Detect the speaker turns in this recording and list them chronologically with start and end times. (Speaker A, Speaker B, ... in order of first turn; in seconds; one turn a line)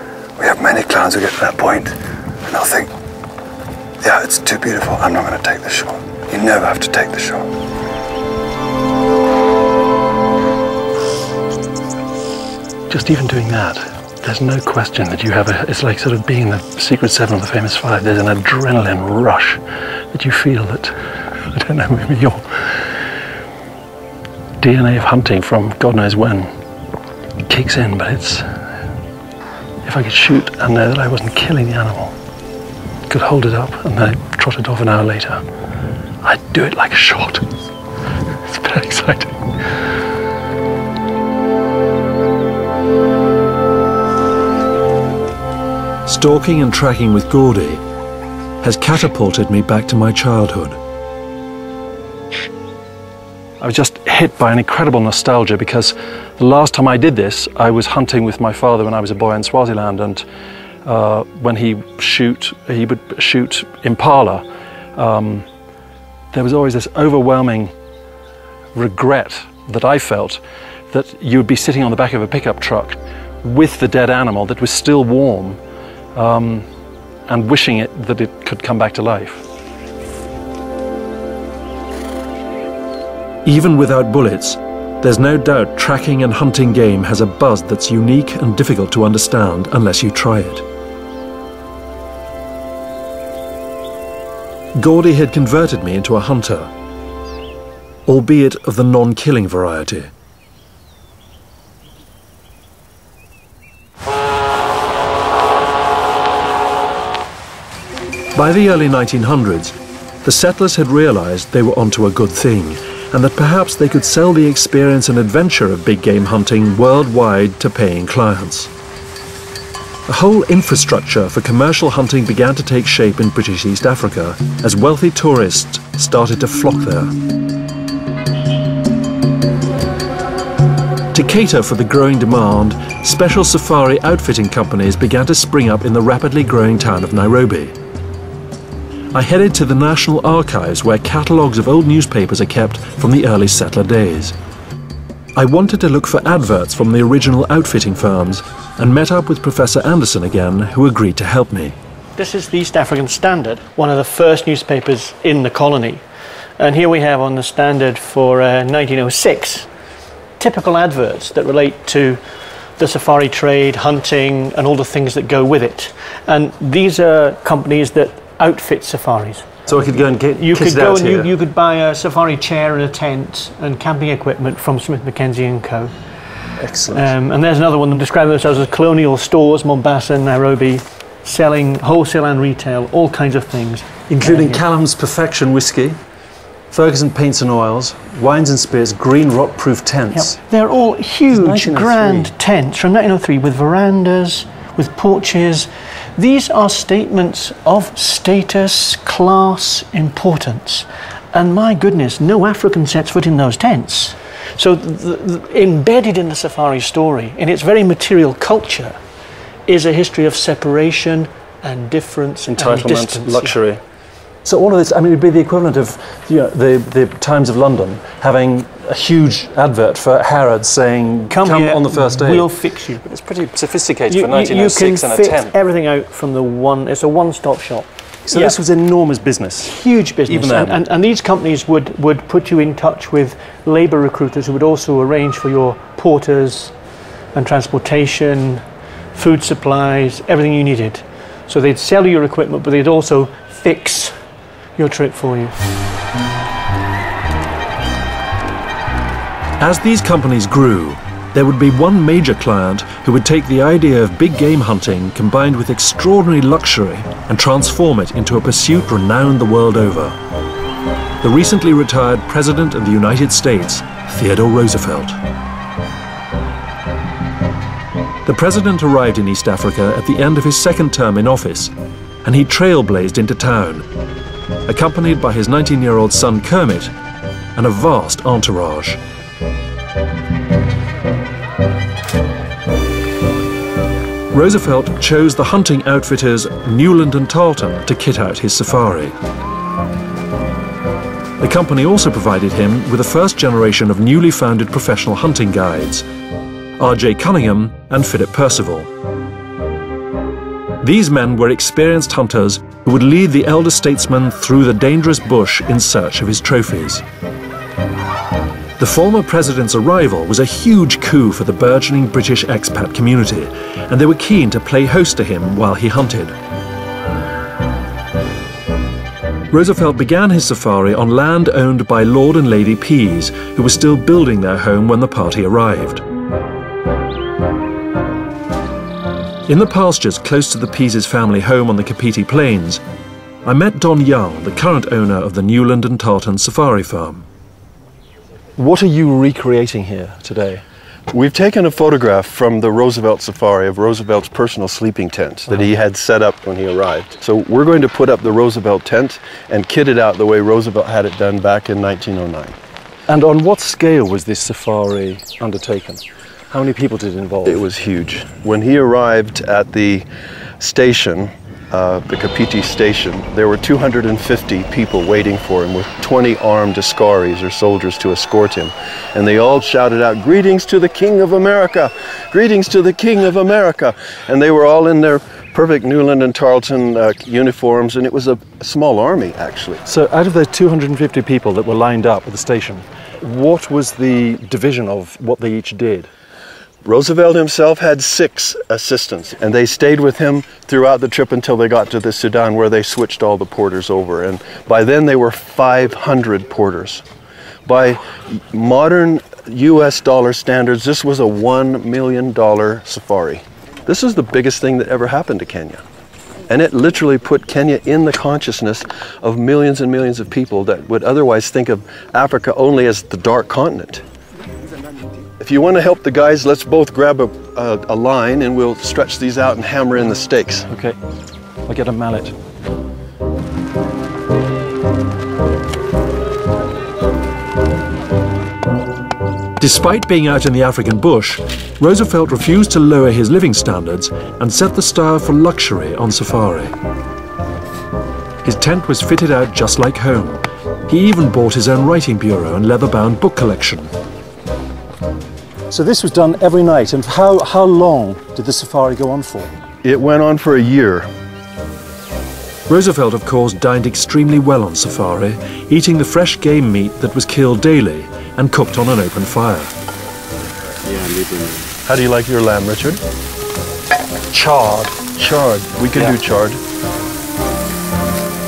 Speaker A: 0.4-2.9
Speaker A: 4.0-7.5
Speaker B: 12.9-19.6
Speaker B: 20.1-20.9
Speaker B: 21.5-22.9
Speaker B: 24.6-26.5
Speaker B: 27.5-28.5
Speaker B: 29.8-32.1
Speaker B: 33.1-35.4
Speaker B: 36.2-37.4
Speaker B: 38.5-39.3
Speaker C: 46.0-47.8
Speaker C: 48.6-50.8
Speaker B: 53.6-60.2
Speaker B: 60.8-64.4
Speaker B: 65.0-65.4
Speaker B: 66.3-67.7
Speaker B: 68.7-75.6
Speaker B: 76.1-76.7
Speaker B: 77.3-79.4
Speaker C: 83.4-90.6
Speaker C: 94.8-96.7
Speaker C: 98.0-100.1
Speaker C: 108.3-118.7
Speaker C: 120.1-127.1
Speaker C: 131.1-137.7
Speaker C: 139.1-144.3
Speaker C: 145.3-151.8
Speaker D: 152.2-156.0
Speaker D: 156.6-159.7
Speaker D: 160.4-162.2
Speaker D: 162.8-169.6
Speaker C: 169.7-171.3
Speaker D: 170.4-175.9
Speaker D: 176.9-184.6
Speaker B: 184.2-186.0
Speaker B: 186.7-190.4
Speaker D: 190.1-209.0
Speaker B: 191.3-192.2
Speaker D: 209.7-213.6
Speaker B: 212.5-213.8
Speaker B: 214.4-222.5
Speaker D: 221.3-223.0
Speaker B: 223.0-225.5
Speaker D: 224.1-228.6
Speaker B: 228.3-230.8
Speaker D: 229.7-236.7
Speaker D: 237.3-238.6
Speaker D: 239.1-244.2
Speaker D: 244.8-245.6
Speaker C: 249.6-260.2
Speaker C: 261.2-265.2
Speaker C: 268.2-271.7
Speaker C: 272.2-273.9
Speaker C: 274.7-276.9
Speaker C: 277.6-279.0
Speaker C: 284.3-289.1
Speaker C: 291.4-296.1
Speaker C: 296.8-298.9
Speaker C: 300.8-307.0
Speaker C: 308.8-316.3
Speaker C: 319.5-326.0
Speaker C: 329.5-332.8
Speaker C: 333.4-337.2
Speaker B: 338.6-340.6
Speaker E: 341.1-352.6
Speaker B: 353.1-357.6
Speaker E: 357.4-360.1
Speaker E: 360.6-379.8
Speaker B: 379.9-386.1
Speaker E: 386.8-397.0
Speaker E: 397.6-405.8
Speaker E: 406.5-414.0
Speaker E: 415.4-420.7
Speaker B: 420.7-421.0
Speaker B: 421.7-422.3
Speaker C: 429.6-436.7
Speaker C: 438.4-443.9
Speaker B: 445.7-449.5
Speaker E: 449.8-451.1
Speaker C: 452.7-459.7
Speaker E: 461.8-463.0
Speaker B: 464.3-465.2
Speaker E: 465.1-466.6